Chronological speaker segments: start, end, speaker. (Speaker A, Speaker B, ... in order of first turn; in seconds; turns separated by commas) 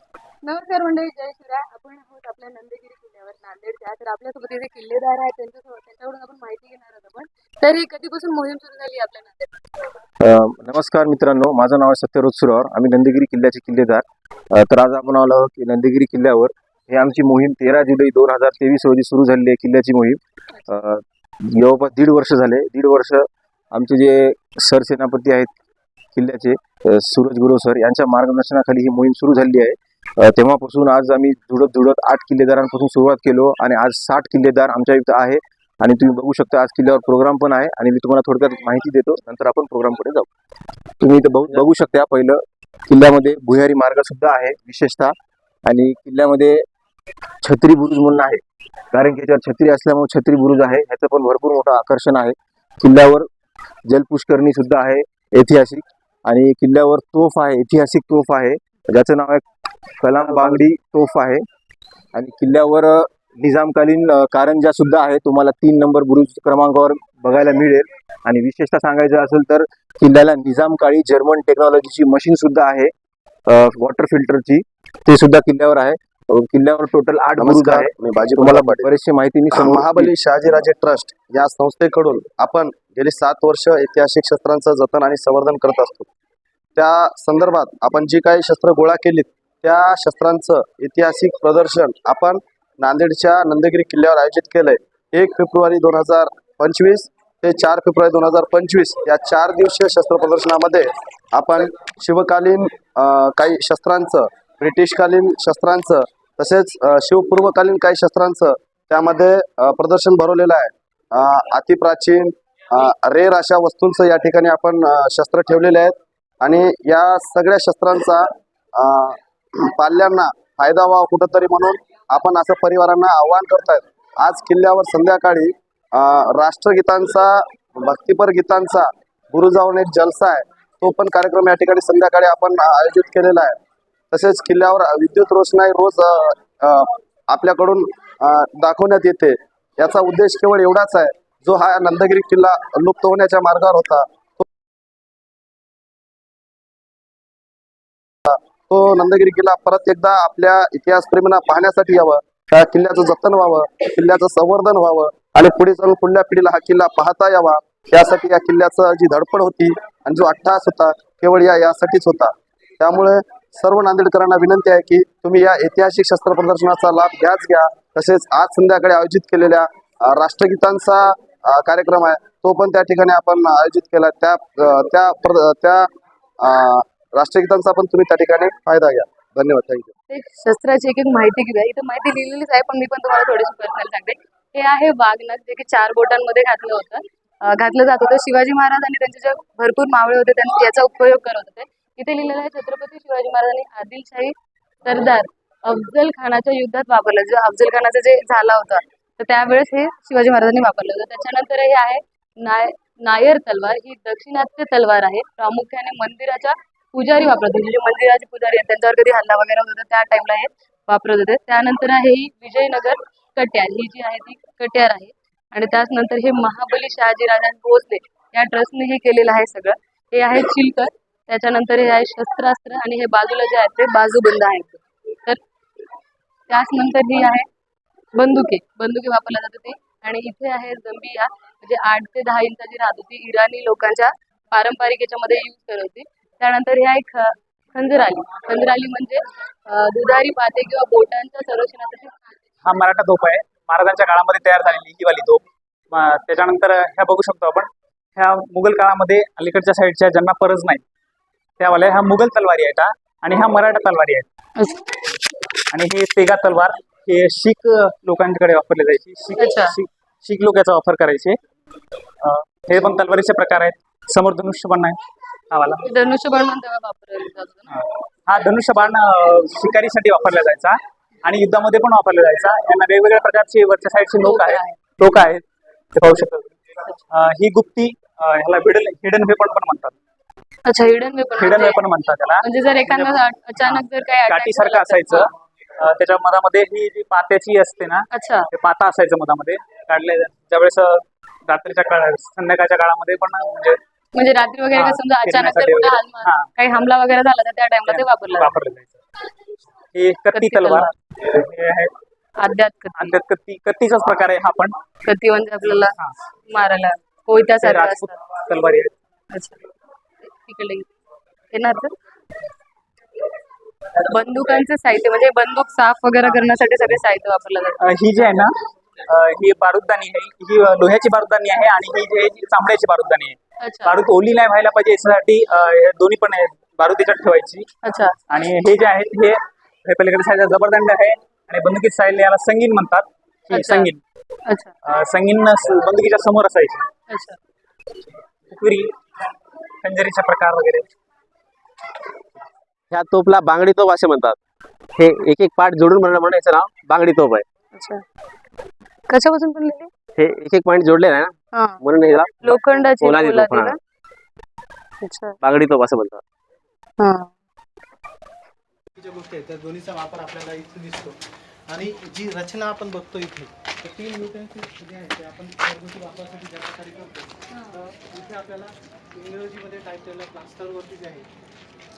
Speaker A: 0.4-9.5, Speaker B: 10.2-25.5, Speaker B: 26.1-40.3, Speaker B: 41.0-45.1, Speaker B: 45.6-46.6, Speaker B: 47.4-48.4, Speaker B: 48.9-53.3, Speaker B: 53.9-59.4, Speaker B: 60.0-61.4, Speaker B: 62.1-72.9, Speaker B: 73.5-80.1, Speaker C: 77.4-78.9, Speaker C: 79.5-86.1, Speaker C: 86.8-133.6, Speaker C: 134.1-144.4, Speaker C: 148.2-175.9, Speaker C: 176.4-179.9, Speaker A: 180.1-225.4, Speaker A: 226.5-227.4, Speaker A: 228.1-242.4, Speaker D: 242.6-250.8, Speaker D: 251.6-254.2, Speaker D: 255.7-261.4, Speaker A: 259.4-259.8, Speaker D: 262.2-265.0, Speaker D: 265.5-265.9, Speaker A: 265.8-267.8, Speaker D: 267.7-276.6, Speaker A: 274.2-274.8, Speaker D: 277.1-279.9, Speaker A: 280.6-281.8, Speaker D: 281.4-293.8, Speaker A: 282.4-285.3, Speaker A: 288.1-288.5, Speaker A: 294.1-298.5, Speaker D: 294.7-296.4, Speaker D: 297.9-299.0, Speaker D: 299.9-301.9, Speaker A: 300.3-300.9, Speaker A: 302.4-303.1, Speaker D: 303.0-304.7, Speaker A: 305.0-305.9, Speaker A: 306.5-308.2, Speaker D: 307.6-308.9, Speaker A: 309.3-309.6, Speaker A: 310.3-310.9, Speaker A: 311.5-311.9, Speaker A: 314.0-317.8, Speaker D: 317.8-318.5, Speaker D: 319.1-327.7, Speaker A: 323.6-323.9, Speaker A: 327.8-328.2, Speaker D: 328.3-334.0, Speaker A: 333.5-333.9, Speaker A: 334.4-334.7, Speaker D: 334.8-336.9, Speaker A: 337.1-337.4, Speaker D: 338.5-338.9, Speaker D: 339.8-340.9, Speaker E: 342.9-344.4, Speaker E: 344.9-347.4, Speaker A: 347.7-348.0, Speaker A: 349.1-349.9, Speaker E: 350.1-353.7, Speaker A: 351.5-351.8, Speaker A: 352.4-353.8, Speaker A: 355.0-355.4, Speaker E: 355.4-356.2, Speaker A: 357.0-357.3, Speaker F: 358.9-371.3